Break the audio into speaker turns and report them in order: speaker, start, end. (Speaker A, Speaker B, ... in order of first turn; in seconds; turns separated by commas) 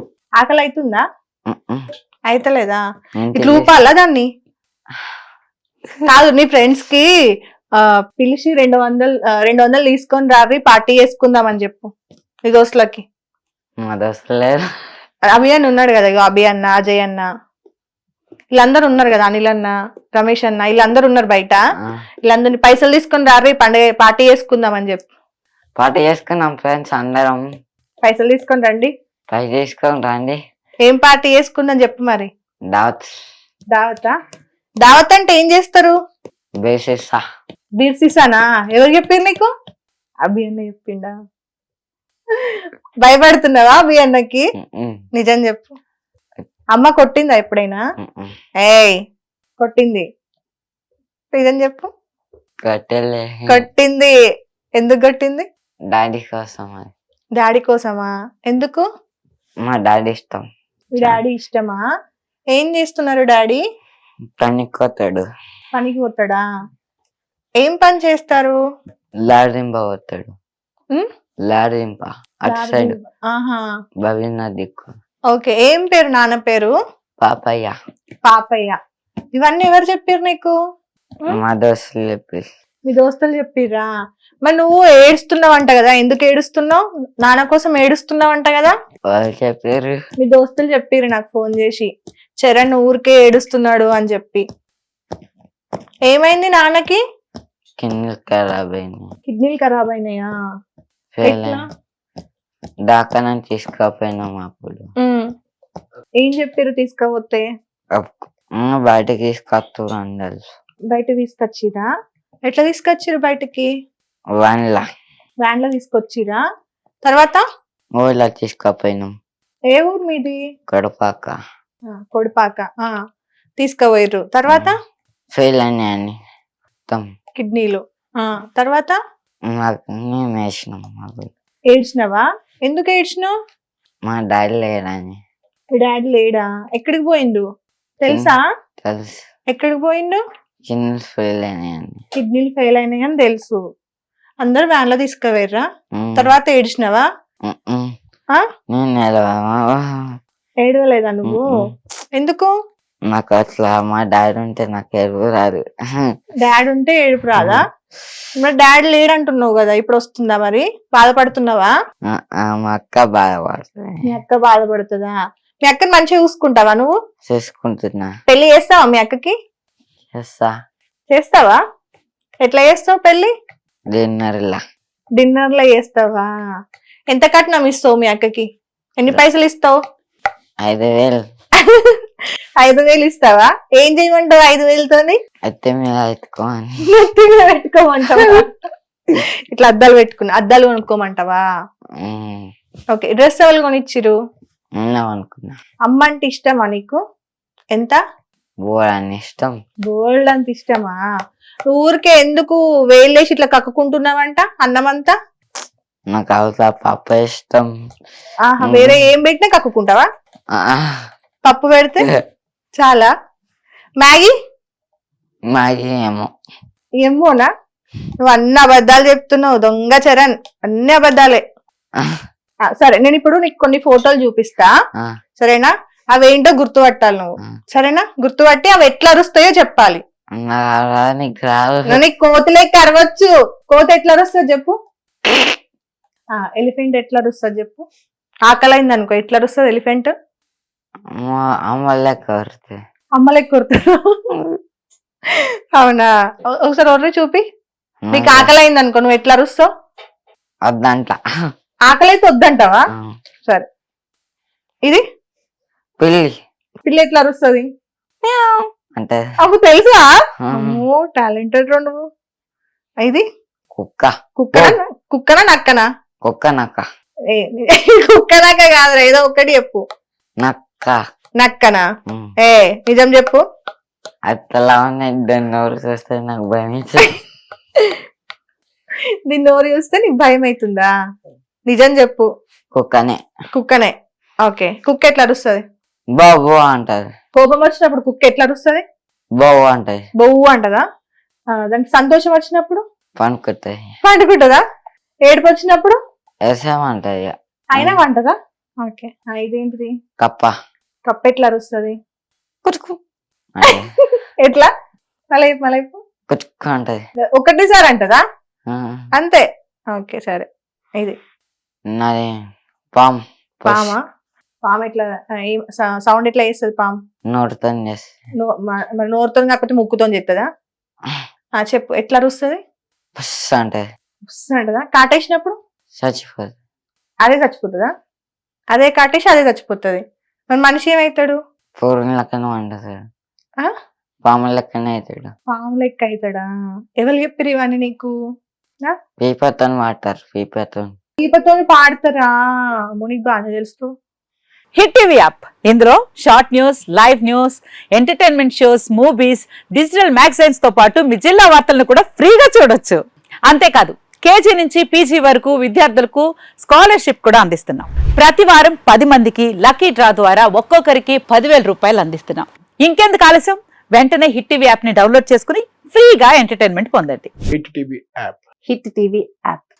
Speaker A: 0.4-1.0, Speaker B: 1.5-1.8, Speaker A: 2.3-2.8, Speaker B: 3.2-3.7, Speaker A: 3.4-4.2, Speaker A: 6.1-7.1, Speaker A: 7.8-11.9, Speaker A: 12.5-13.0, Speaker B: 13.8-14.6, Speaker A: 15.3-17.3, Speaker A: 18.6-21.6, Speaker A: 22.3-25.1, Speaker B: 25.8-27.4, Speaker A: 28.0-28.9, Speaker B: 29.3-30.4, Speaker A: 30.9-32.3, Speaker B: 32.7-33.1, Speaker A: 33.7-34.1, Speaker A: 34.8-35.9, Speaker B: 36.6-37.2, Speaker A: 37.8-39.5, Speaker A: 40.2-41.1, Speaker A: 43.0-44.5, Speaker B: 44.6-45.0, Speaker A: 45.1-45.7, Speaker A: 46.7-47.8, Speaker B: 48.0-48.3, Speaker A: 48.6-49.0, Speaker A: 49.6-50.0, Speaker A: 51.3-51.9, Speaker B: 52.6-53.6, Speaker A: 53.5-54.1, Speaker A: 54.8-55.5, Speaker B: 55.9-56.9, Speaker A: 57.4-58.8, Speaker B: 59.6-60.4, Speaker A: 60.9-61.8, Speaker A: 62.5-63.6, Speaker B: 64.4-65.2, Speaker A: 65.7-66.4, Speaker A: 67.6-68.6, Speaker B: 69.3-70.3, Speaker B: 71.5-73.0, Speaker A: 72.5-73.6, Speaker B: 74.0-74.9, Speaker A: 75.3-76.7, Speaker B: 77.2-77.7, Speaker A: 78.3-78.8, Speaker A: 79.3-80.5, Speaker B: 81.3-82.5, Speaker A: 82.9-83.9, Speaker A: 84.4-88.7, Speaker B: 89.1-90.0, Speaker A: 90.2-91.9, Speaker A: 92.4-94.4, Speaker A: 96.1-97.0, Speaker B: 97.8-99.1, Speaker A: 99.2-100.3, Speaker B: 101.1-101.6, Speaker A: 101.2-101.6, Speaker B: 102.9-104.9, Speaker A: 106.2-107.4, Speaker B: 108.0-110.5, Speaker A: 110.9-111.9, Speaker A: 112.5-113.7, Speaker B: 114.4-114.8, Speaker A: 115.4-116.4, Speaker A: 117.0-117.4, Speaker B: 118.0-119.1, Speaker A: 119.7-120.4, Speaker B: 120.7-121.3, Speaker A: 121.9-122.9, Speaker A: 123.6-124.8, Speaker B: 124.5-124.7, Speaker B: 125.3-126.2, Speaker A: 127.4-128.9, Speaker B: 129.5-131.3, Speaker A: 131.7-133.3, Speaker B: 134.1-135.2, Speaker A: 135.7-137.4, Speaker A: 138.0-138.4, Speaker B: 138.1-139.2, Speaker A: 139.5-140.2, Speaker B: 140.7-142.0, Speaker A: 142.2-143.6, Speaker A: 144.4-145.6, Speaker B: 145.9-146.3, Speaker A: 146.2-147.0, Speaker B: 147.5-147.9, Speaker B: 148.7-150.0, Speaker A: 150.6-151.4, Speaker B: 151.2-151.5, Speaker A: 152.2-152.5, Speaker B: 153.1-156.1, Speaker A: 156.4-157.6, Speaker B: 157.3-157.6, Speaker A: 158.4-161.7, Speaker B: 162.1-164.0, Speaker A: 164.1-166.9, Speaker B: 167.2-168.1, Speaker A: 168.3-169.3, Speaker B: 170.1-170.5, Speaker A: 171.1-171.6, Speaker A: 172.4-173.3, Speaker B: 173.9-174.6, Speaker A: 175.2-176.3, Speaker A: 177.1-178.5, Speaker A: 179.0-179.7, Speaker B: 180.6-181.2, Speaker A: 181.7-181.9, Speaker A: 182.6-185.2, Speaker B: 185.5-186.8, Speaker A: 186.9-188.4, Speaker A: 189.5-191.4, Speaker B: 192.0-192.5, Speaker A: 192.9-194.1, Speaker B: 194.8-195.6, Speaker A: 195.8-197.0, Speaker A: 197.7-198.0, Speaker B: 198.7-199.5, Speaker A: 199.9-201.0, Speaker A: 201.7-205.1, Speaker B: 206.1-207.7, Speaker A: 208.5-210.1, Speaker B: 208.6-209.0, Speaker B: 210.5-211.0, Speaker A: 211.4-212.1, Speaker A: 212.8-213.1, Speaker A: 214.0-214.3, Speaker B: 215.5-216.3, Speaker A: 217.0-217.5, Speaker A: 218.2-221.4, Speaker B: 222.0-222.2, Speaker A: 222.8-224.7, Speaker A: 225.4-230.0, Speaker B: 230.3-232.0, Speaker A: 231.9-234.7, Speaker A: 236.3-237.8, Speaker A: 238.5-240.1, Speaker B: 241.2-242.8, Speaker A: 243.2-244.2, Speaker A: 245.7-246.1, Speaker A: 246.6-247.4, Speaker B: 248.1-248.5, Speaker A: 248.1-249.7, Speaker B: 250.7-251.2, Speaker A: 251.9-252.8, Speaker B: 256.0-256.3, Speaker A: 256.8-257.7, Speaker B: 258.2-259.2, Speaker A: 259.4-262.0, Speaker B: 260.5-260.8, Speaker B: 263.7-264.8, Speaker A: 264.4-265.8, Speaker B: 266.2-266.8, Speaker A: 267.3-269.8, Speaker B: 270.4-271.0, Speaker A: 271.4-271.8, Speaker B: 272.1-272.3, Speaker A: 272.4-273.4, Speaker B: 274.3-277.1, Speaker A: 279.3-280.9, Speaker A: 281.7-282.3, Speaker B: 282.7-283.2, Speaker A: 283.5-283.9, Speaker A: 284.4-285.6, Speaker B: 286.1-287.1, Speaker A: 287.4-288.8, Speaker B: 289.4-290.0, Speaker A: 290.2-290.8, Speaker A: 291.5-292.8, Speaker B: 293.2-293.9, Speaker A: 294.0-294.6, Speaker A: 295.3-296.0, Speaker B: 296.4-298.0, Speaker A: 297.7-299.9, Speaker B: 300.2-300.5, Speaker A: 301.1-302.0, Speaker B: 302.6-303.0, Speaker B: 303.5-303.9, Speaker A: 304.1-304.7, Speaker A: 305.3-306.0, Speaker B: 306.3-307.0, Speaker A: 307.4-308.2, Speaker B: 308.7-309.0, Speaker A: 309.1-309.4, Speaker A: 309.9-310.4, Speaker B: 311.9-312.3, Speaker B: 312.9-313.9, Speaker A: 313.7-314.0, Speaker A: 314.6-317.0, Speaker B: 317.3-318.1, Speaker A: 318.4-320.5, Speaker A: 321.6-322.6, Speaker B: 323.1-323.8, Speaker A: 324.3-325.6, Speaker B: 326.0-326.5, Speaker A: 327.2-327.9, Speaker A: 328.7-330.0, Speaker A: 330.5-331.4, Speaker B: 331.8-333.0, Speaker B: 334.2-335.3, Speaker A: 335.5-336.5, Speaker A: 337.0-338.1, Speaker B: 339.2-340.9, Speaker A: 341.2-342.3, Speaker A: 343.0-343.9, Speaker C: 344.7-367.3, Speaker C: 368.7-369.6